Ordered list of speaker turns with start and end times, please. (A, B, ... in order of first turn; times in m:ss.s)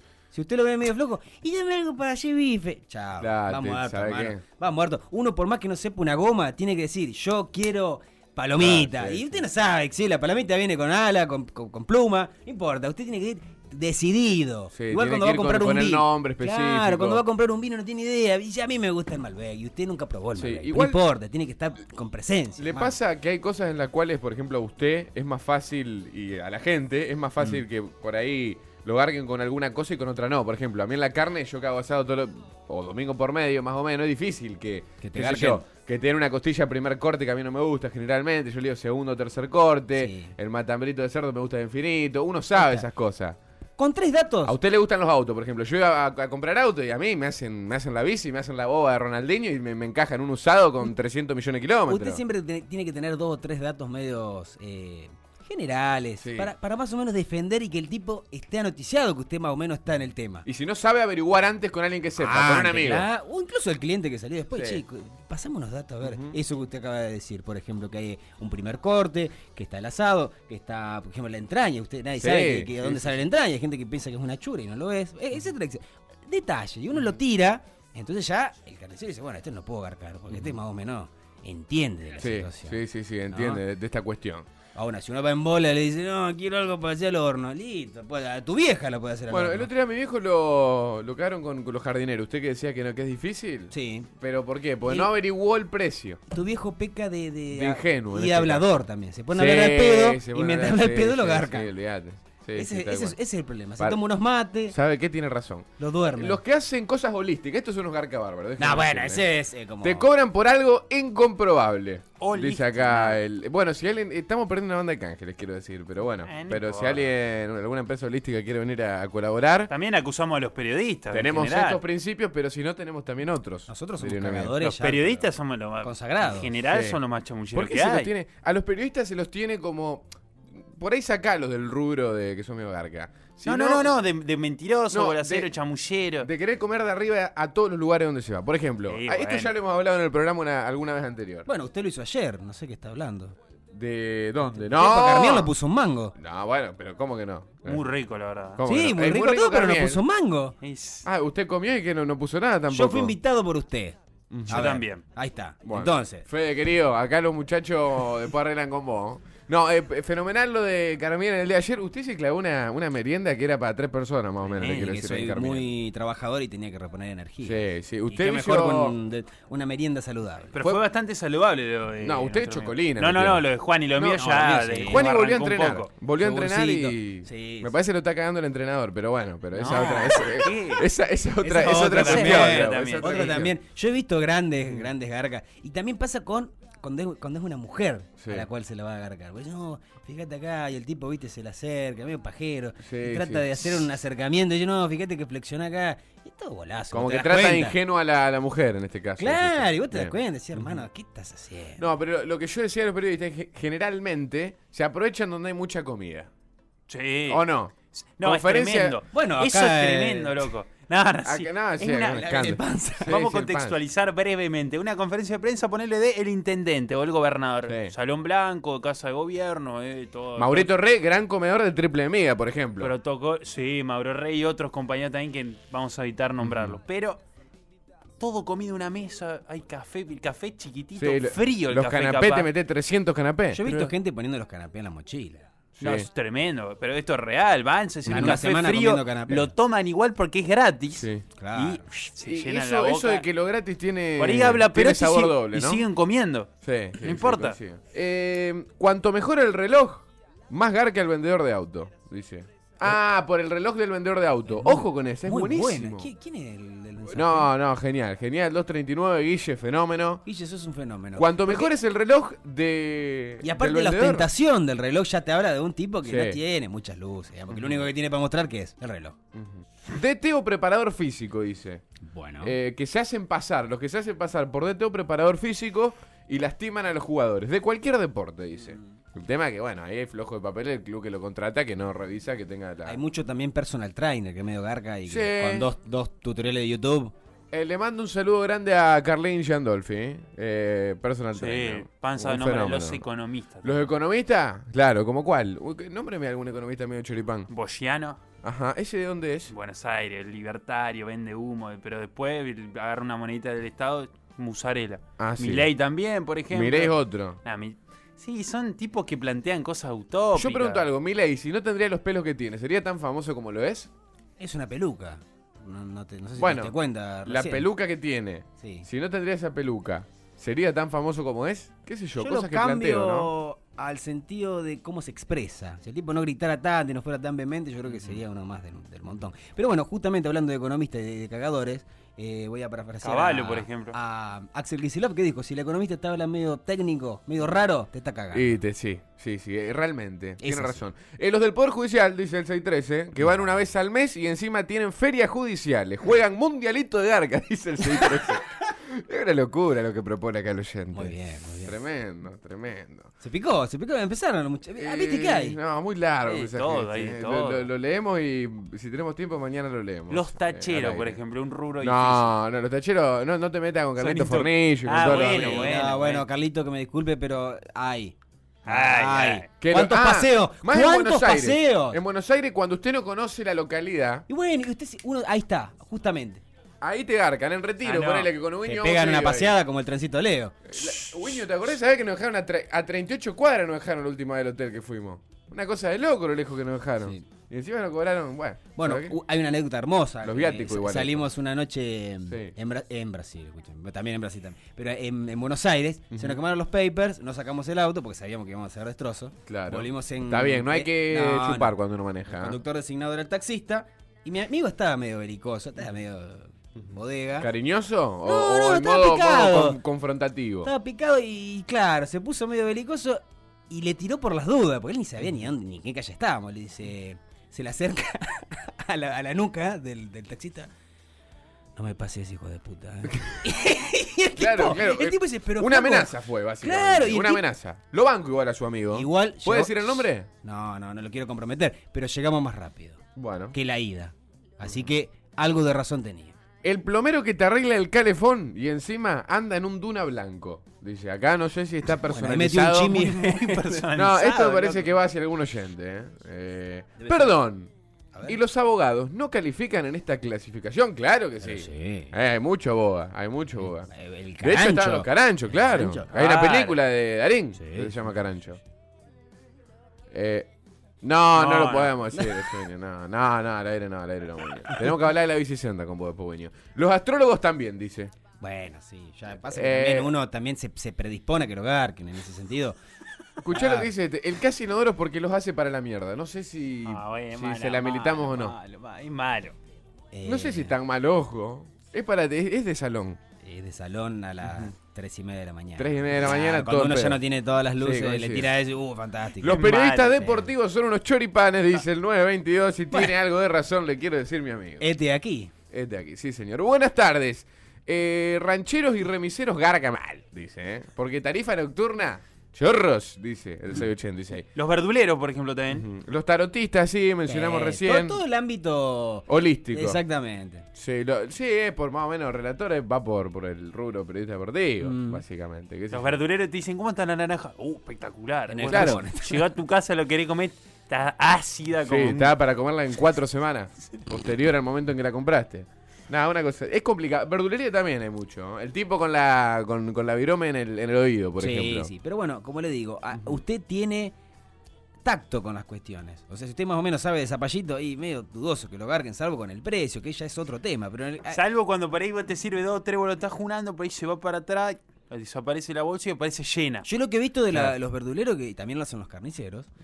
0:00.3-0:23.0 A
0:03.2-0:04.4 B
0:08.6-0:09.5 B
0:14.7-0:17.2 B
0:20.4-0:21.0 B
0:22.6-0:43.4 B
0:35.0-0:35.6 A
0:40.0-0:40.3 A
0:42.6-0:42.8 A
0:43.8-0:44.6 A
0:44.4-0:52.2 B
0:51.9-1:00.4 A
0:56.2-0:56.5 B
1:00.4-1:03.1 B
1:02.2-1:23.6 A
1:04.5-1:04.8 B
1:06.0-1:06.4 B
1:12.2-1:13.2 B
1:22.2-1:24.5 B
1:24.7-1:29.7 A
1:29.3-1:36.2 B
1:33.7-1:34.1 A
1:34.8-1:35.1 A
1:36.3-1:41.7 A
1:37.5-1:38.6 B
1:39.3-1:43.2 B
1:42.5-1:44.7 A
1:44.7-1:49.2 B
1:45.8-1:46.4 A
1:48.6-1:50.1 A
1:49.8-1:59.7 B
1:52.2-1:53.2 C
1:56.2-1:57.1 C
1:59.7-2:01.8 C
2:01.1-2:04.6 B
2:03.7-2:05.3 A
2:04.6-2:08.1 C
2:05.8-2:06.5 A
2:06.7-2:07.0 B
2:07.5-2:13.9 B
2:13.4-2:16.3 C
2:14.9-2:15.5 B
2:16.2-2:21.5 B
2:18.9-2:19.5 C
2:21.4-2:23.3 A
2:23.7-2:25.5 B
2:24.6-2:26.1 A
2:26.2-2:27.9 B
2:27.6-2:28.6 C
2:28.6-2:30.0 B
2:28.6-2:30.5 A
2:30.6-2:31.0 C
2:31.0-2:33.2 B
2:32.7-2:36.2 A
2:34.3-2:34.6 B
2:34.5-2:35.0 C
2:35.6-2:45.7 B
2:44.5-2:45.0 C
2:44.6-2:50.6 A
2:47.4-2:49.0 B
2:50.5-2:55.9 C
2:52.0-3:03.6 B
2:54.1-2:55.1 A
2:56.2-2:57.7 A
2:59.5-3:00.8 C
2:59.7-3:00.3 A
3:01.4-3:17.8 A
3:01.5-3:03.5 C
3:08.2-3:08.4 B
3:12.8-3:13.9 B
3:16.9-3:20.8 B
3:19.2-3:21.9 A
3:21.8-3:26.3 B
3:26.9-3:27.4 C
3:27.3-3:29.0 B
3:28.2-3:32.5 C
3:29.1-3:30.5 A
3:31.2-3:33.8 B
3:32.1-3:33.2 A
3:33.1-3:40.7 C
3:37.7-3:37.9 B
3:40.4-3:42.9 B
3:42.8-3:47.2 C
3:46.4-3:46.8 B
3:48.2-3:52.5 C
3:50.9-3:53.6 B
3:53.5-3:55.4 A
3:53.6-3:53.9 C
3:55.8-3:56.1 B
3:55.8-4:03.2 C
3:58.1-3:59.5 A
3:58.1-3:58.4 B
4:01.0-4:01.2 B
4:01.4-4:01.8 A
4:02.2-4:05.9 B
4:04.2-4:07.6 C
4:06.6-4:16.1 B
4:14.5-4:17.5 A
4:17.1-4:20.2 B
4:20.2-4:21.7 A
4:21.2-4:24.3 B
4:23.4-4:29.2 A
4:26.0-4:26.4 B
4:27.5-4:27.8 B
4:29.3-4:31.8 B
4:32.1-4:32.5 A
4:32.4-4:43.0 B
4:42.8-4:47.1 A
4:45.1-4:45.7 B
4:47.5-4:53.0 B
4:51.3-4:53.9 C
4:53.6-4:57.5 B
4:57.5-4:58.2 C
4:58.4-4:59.5 B
4:59.5-5:10.8 C
5:05.2-5:05.7 B
5:06.5-5:07.4 B
5:10.3-5:13.9 B
5:14.4-5:17.7 A
5:16.4-5:23.3 B
5:18.6-5:18.9 A
5:22.2-5:38.6 A
5:33.0-5:34.0 C
5:38.3-5:53.1 B
5:40.4-5:40.8 A
5:47.8-5:48.4 A
5:50.9-5:51.7 A
5:53.2-5:55.6 A
5:54.8-6:01.2 B
5:56.2-5:57.7 C
6:00.1-6:02.3 C
6:01.8-6:05.9 B
6:04.0-6:06.2 C
6:05.0-6:08.2 A
6:08.6-6:09.5 C
6:08.7-6:12.0 A
6:09.6-6:14.2 B
6:14.3-6:16.4 A
6:16.8-6:19.6 B
6:17.8-6:18.3 C
6:18.6-6:20.6 A
6:20.7-6:29.2 B
6:28.8-6:41.8 A
6:30.2-6:31.3 B
6:32.3-6:32.5 B
6:36.1-6:36.4 B
6:39.5-6:42.6 B
6:42.3-6:47.5 A
6:47.4-6:50.7 B
6:48.2-6:49.8 A
6:50.6-7:00.7 A
7:01.8-7:07.4 A
7:04.4-7:10.3 B
7:08.9-7:13.0 A
7:13.2-7:13.5 B
7:13.5-7:16.3 A
7:16.6-7:23.0 B
7:22.0-7:23.8 A
7:22.8-7:24.9 C
7:23.9-7:27.7 B
7:27.0-7:27.3 A
7:28.2-7:33.9 B
7:31.4-7:32.1 A
7:33.9-7:36.1 A
7:34.4-7:38.6 B
7:36.1-7:36.8 C
7:37.5-7:38.0 A
7:40.1-7:40.5 B
7:41.0-7:48.1 B
7:41.3-7:42.0 C
7:48.4-7:52.8 A
7:49.5-7:50.1 B
7:53.4-7:58.6 B
7:53.5-7:53.9 A
7:56.8-7:59.5 C
8:00.1-8:00.8 A
8:00.2-8:03.2 B
8:03.4-8:10.5 A
8:05.8-8:07.2 B
8:07.8-8:08.6 B
8:09.4-8:14.8 B
8:09.4-8:10.2 C
8:14.8-8:15.5 A
8:15.7-8:24.5 B
8:24.5-8:25.9 C
8:25.7-8:28.2 B
8:27.2-8:30.6 A
8:29.3-8:30.0 B
8:30.7-8:36.2 B
8:34.8-8:35.2 A
8:35.9-8:42.3 C
8:38.5-8:39.5 A
8:38.7-8:39.0 B
8:41.8-8:51.9 B
8:51.4-8:54.2 A
8:55.0-9:01.4 A
9:01.3-9:06.8 C
9:06.8-9:09.7 A